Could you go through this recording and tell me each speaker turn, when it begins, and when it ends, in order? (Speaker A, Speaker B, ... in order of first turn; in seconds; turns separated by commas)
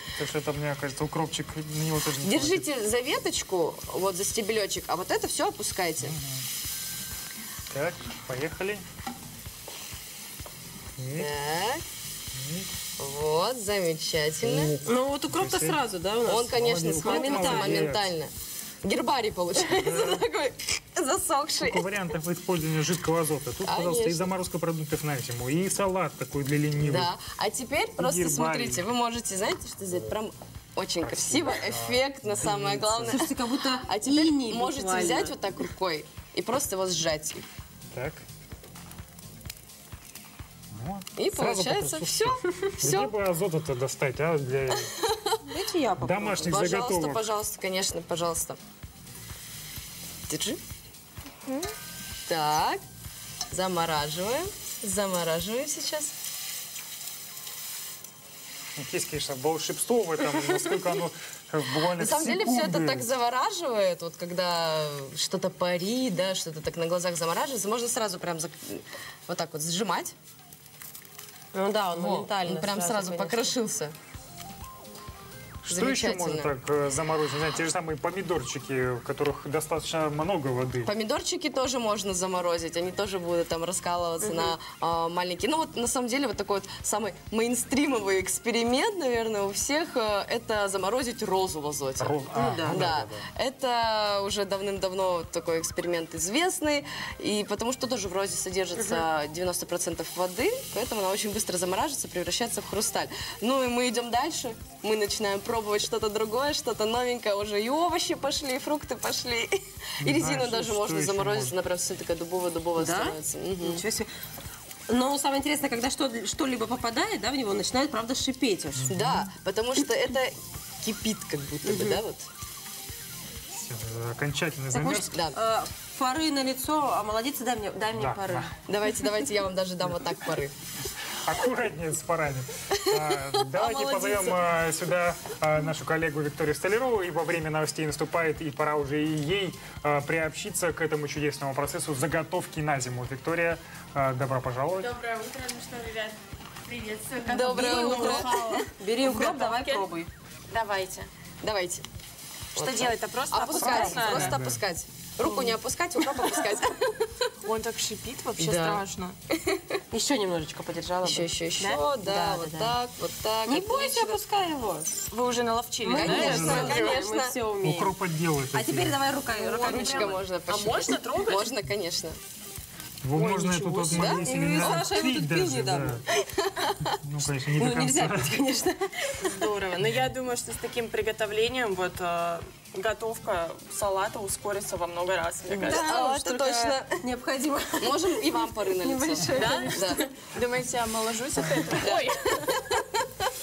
Speaker A: 0.1-2.7, Speaker B: 2.2-6.2, Speaker A: 6.0-6.5, Speaker A: 7.7-8.8, Speaker A: 11.0-11.3, Speaker B: 11.2-11.8, Speaker A: 12.4-12.7, Speaker B: 13.0-14.7, Speaker A: 14.4-15.8, Speaker C: 14.8-17.9, Speaker B: 16.2-18.3, Speaker A: 16.5-18.1, Speaker B: 18.8-21.9, Speaker A: 19.7-20.2, Speaker A: 21.6-27.1, Speaker B: 23.6-24.3, Speaker B: 26.8-37.5, Speaker A: 28.0-28.8, Speaker A: 31.0-33.2, Speaker C: 33.1-35.4, Speaker A: 37.9-38.2, Speaker A: 40.7-44.9, Speaker B: 41.2-43.1, Speaker B: 44.7-45.4, Speaker C: 45.5-46.5, Speaker A: 46.0-47.2, Speaker B: 46.4-48.6, Speaker B: 50.3-50.6, Speaker B: 52.3-52.8, Speaker B: 53.5-56.1, Speaker A: 58.8-63.1, Speaker B: 62.0-70.1, Speaker C: 71.5-73.6, Speaker B: 71.9-74.0, Speaker A: 75.7-80.9, Speaker B: 75.7-76.5, Speaker B: 80.8-113.8, Speaker C: 84.2-84.5, Speaker A: 92.0-93.3, Speaker C: 92.3-92.9, Speaker C: 98.8-99.1, Speaker A: 110.0-111.5, Speaker C: 112.8-114.1, Speaker C: 114.9-118.9, Speaker A: 118.8-119.3, Speaker B: 118.9-122.3, Speaker C: 121.6-122.0, Speaker A: 123.5-125.1, Speaker C: 124.7-128.5, Speaker B: 125.1-125.4, Speaker A: 128.0-128.5, Speaker B: 128.7-130.5, Speaker A: 131.2-145.0, Speaker B: 132.7-134.4, Speaker D: 144.8-149.9, Speaker B: 147.3-148.7, Speaker C: 147.4-150.1, Speaker D: 150.5-151.1, Speaker B: 151.4-151.8, Speaker D: 152.6-154.3, Speaker B: 152.6-157.3, Speaker C: 153.5-154.2, Speaker A: 154.1-154.6, Speaker D: 157.4-159.2, Speaker B: 158.3-159.8, Speaker C: 159.9-161.3, Speaker B: 161.0-164.2, Speaker C: 162.0-162.8, Speaker C: 163.4-165.0, Speaker B: 165.1-167.4, Speaker C: 165.8-168.0, Speaker D: 165.9-166.9, Speaker A: 166.0-166.9, Speaker A: 167.6-169.0, Speaker C: 168.5-170.2, Speaker D: 169.3-171.6, Speaker B: 169.6-172.2, Speaker A: 173.0-176.1, Speaker B: 173.2-174.9, Speaker C: 173.6-176.0, Speaker B: 176.1-177.0, Speaker A: 176.9-178.4, Speaker C: 177.6-179.3, Speaker D: 179.2-185.9, Speaker B: 185.5-187.1, Speaker C: 185.5-190.0, Speaker B: 187.8-190.1, Speaker D: 189.3-192.6, Speaker B: 191.8-192.9